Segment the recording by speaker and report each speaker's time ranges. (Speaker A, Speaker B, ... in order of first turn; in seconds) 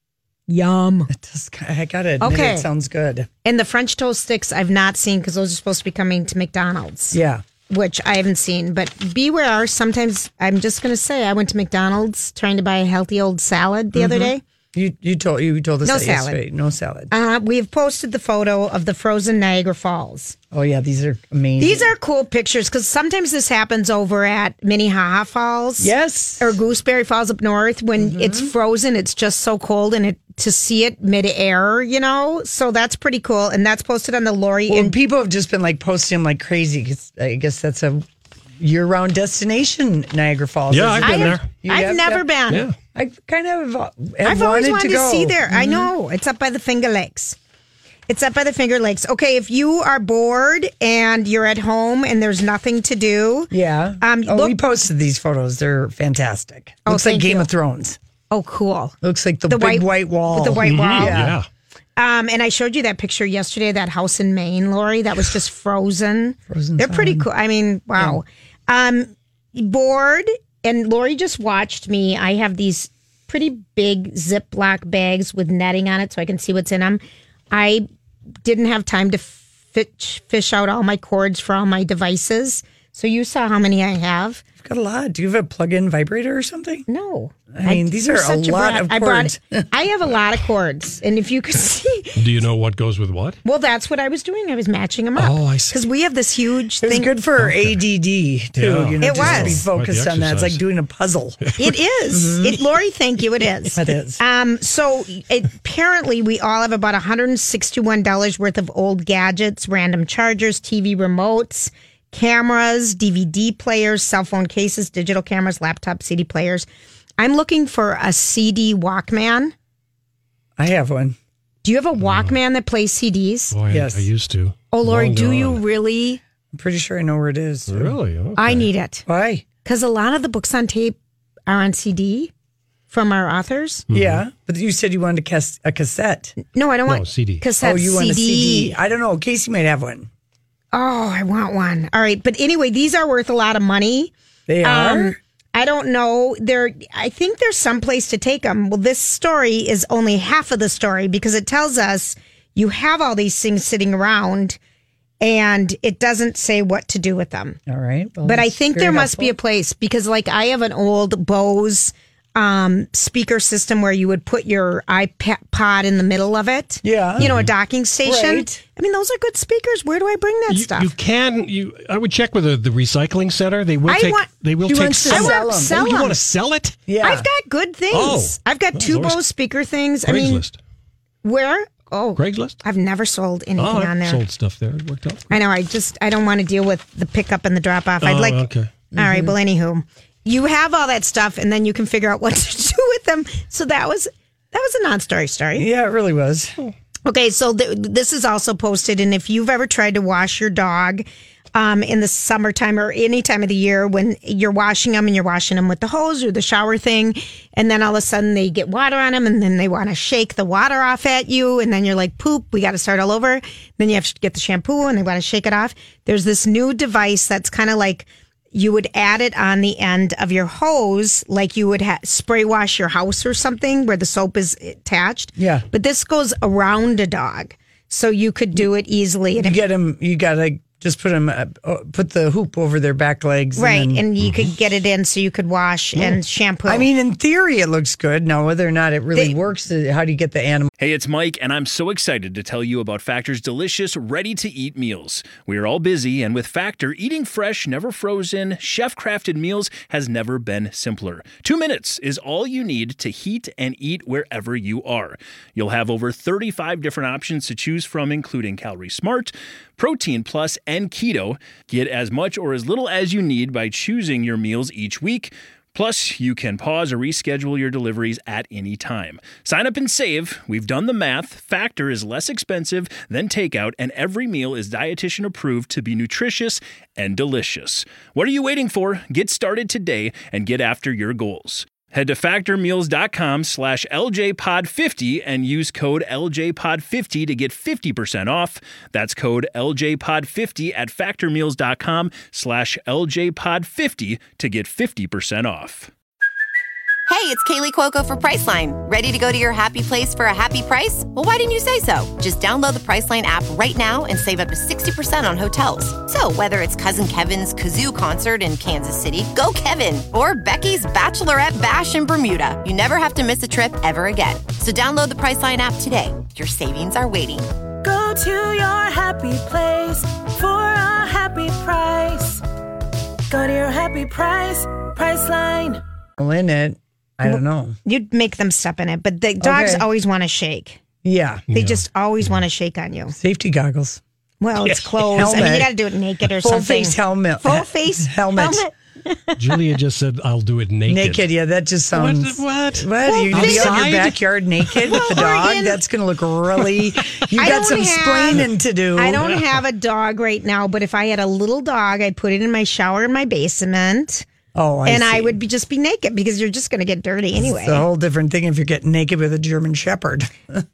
Speaker A: 0.5-1.1, 2.2-2.6, 3.4-7.2, 7.7-14.4, 15.8-16.4, 17.1-20.4, 21.6-35.0, 41.0-42.6, 44.2-47.4, 48.1-54.6, 56.9-57.5, 58.3-59.0, 59.5-61.2, 62.0-77.9, 78.4-84.4, 86.9-92.2, 93.4-97.1, 99.0-99.6, 101.6-116.7, 117.2-119.5, 121.6-123.5, 124.7-126.2, 128.3-129.0, 129.6-131.0, 131.5-132.3, 132.9-133.8, 136.4-138.7, 140.7-144.1, 144.6-154.6, 155.2-157.6, 158.2-170.9, 173.9-174.3, 175.0-176.2, 177.0-180.4, 181.2-184.2, 185.3-188.4, 188.9-195.7, 197.1-229.6, 233.6-236.9, 327.3-330.8, 331.5-333.1, 334.4-339.4, 343.0-344.0, 344.9-345.8, 347.4-354.2, 354.8-357.8
Speaker B: 1.1-3.3, 7.1-7.4, 13.9-17.1, 20.5-21.9, 25.8-26.5, 28.0-28.5, 34.7-38.0, 38.6-42.3, 42.9-45.9, 53.5-58.0, 59.0-61.4, 66.5-67.2, 84.6-86.8, 87.5-89.7, 96.8-101.4, 102.1-102.6, 103.7-104.2, 120.6-121.2, 123.7-124.1, 126.5-128.0, 129.1-129.4, 133.9-136.3, 137.6-140.1, 144.5-145.2, 157.7-159.3, 166.8-167.3, 168.0-168.6, 174.6-175.8, 176.9-177.3, 188.9-189.3, 195.6-196.5, 225.4-225.6, 229.4-234.0, 236.7-240.7, 326.2-327.8, 329.4-329.9, 331.0-331.4, 333.1-334.0, 335.1-335.7, 336.4-338.6, 340.9-349.2, 354.5-355.4, 357.4-360.6
Speaker C: 40.7-41.5, 42.5-42.7, 60.6-61.5, 92.2-93.4, 95.2-95.8, 97.4-97.8, 98.5-100.6, 122.0-122.3, 123.5-125.6, 127.7-128.7, 133.9-134.2, 136.9-137.4, 167.2-167.5, 170.5-176.8, 177.9-179.2, 180.1-180.6, 182.2-182.6, 183.6-185.3, 188.0-188.8, 331.5-331.8, 334.7-335.3, 339.4-341.2, 341.9-345.2
Speaker D: 240.8-295.9
Speaker E: 297.1-317.5
Speaker F: 317.8-322.4, 323.3-325.8